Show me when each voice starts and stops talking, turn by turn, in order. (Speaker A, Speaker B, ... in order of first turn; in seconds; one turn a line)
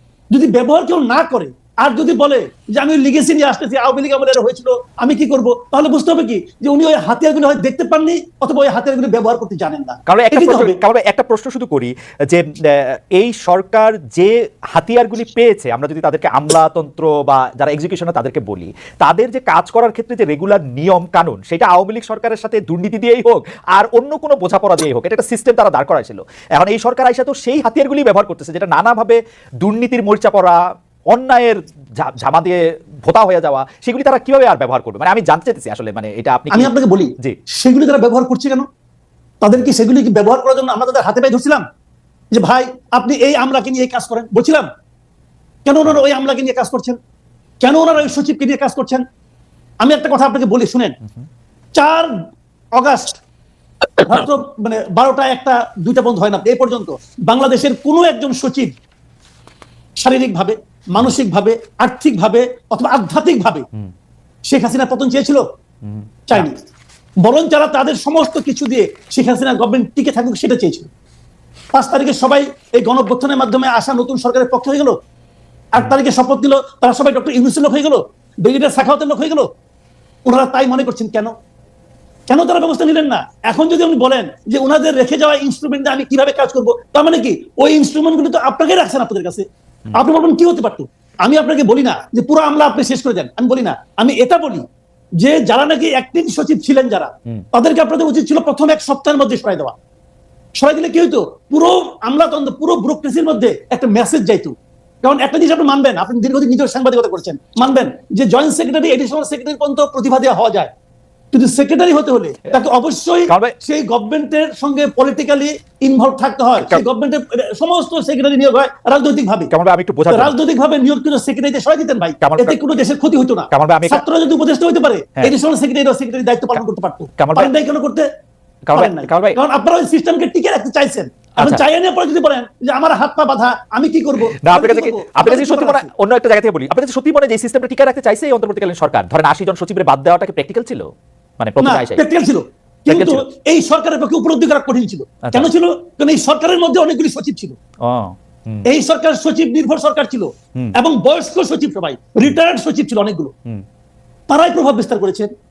Speaker A: 0.3-10.8
Speaker B: 10.1-30.6
Speaker B: 31.1-37.4
Speaker A: 36.5-38.7
Speaker A: 39.4-41.6
Speaker A: 42.3-44.7
Speaker A: 45.7-47.0
Speaker A: 47.6-49.0
Speaker A: 49.8-51.0
Speaker A: 51.8-52.1
Speaker A: 52.8-53.2
Speaker A: 54.0-58.7
Speaker A: 60.0-63.7
Speaker A: 64.5-65.4
Speaker B: 65.8-66.5
Speaker A: 66.3-66.7
Speaker A: 67.2-70.9
Speaker A: 71.7-75.0
Speaker A: 75.7-79.5
Speaker A: 80.3-81.3
Speaker A: 82.3-94.7
Speaker A: 95.2-99.8
Speaker A: 100.6-110.7
Speaker A: 111.3-119.5
Speaker B: 113.3-113.5
Speaker B: 116.6-116.8
Speaker B: 119.5-120.3
Speaker A: 120.1-128.1
Speaker B: 122.2-122.6
Speaker B: 123.5-124.0
Speaker B: 127.2-127.5
Speaker B: 128.7-129.4
Speaker A: 128.7-135.9
Speaker B: 131.4-131.6
Speaker B: 134.4-140.9
Speaker B: 141.4-142.1
Speaker A: 141.6-147.6
Speaker B: 142.9-143.2
Speaker B: 145.2-145.5
Speaker B: 147.8-148.7
Speaker A: 148.7-153.3
Speaker A: 154.3-155.3